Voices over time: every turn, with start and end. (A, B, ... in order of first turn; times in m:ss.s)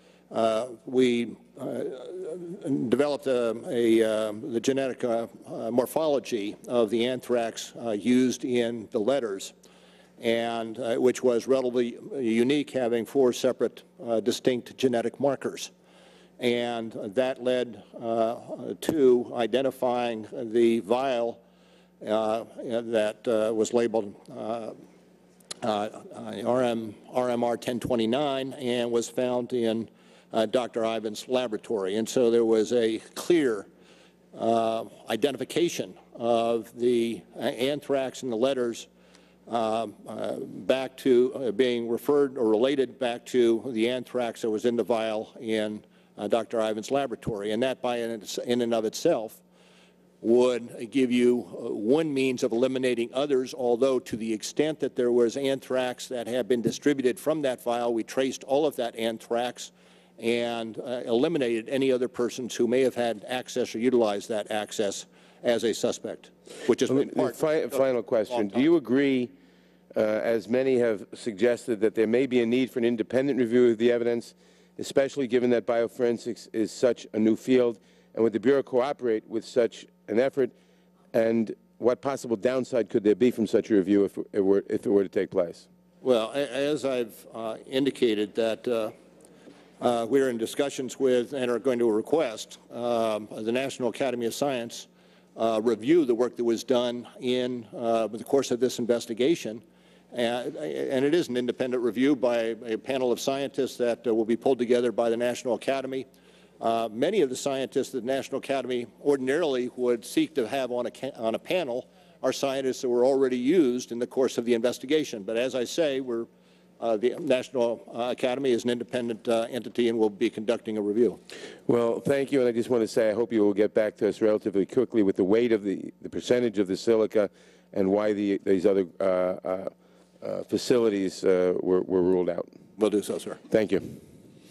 0:00.3-0:09.5 A
0:10.2-0:15.7 A
0:16.4-0:21.4 A
0:22.0-0:24.8 A
0:25.6-0:33.7 A
0:34.3-0:38.9 A
0:39.5-0:49.4 A
0:50.2-1:08.7 A
1:06.9-1:09.3 B
1:10.0-1:20.5 B
1:21.1-1:25.6 B
1:26.0-1:28.9 A
1:29.8-1:46.1 A
1:46.6-1:56.3 A
1:56.8-2:01.2 A
2:01.7-2:12.5 B
2:12.8-2:13.4 A
2:13.5-2:14.0 B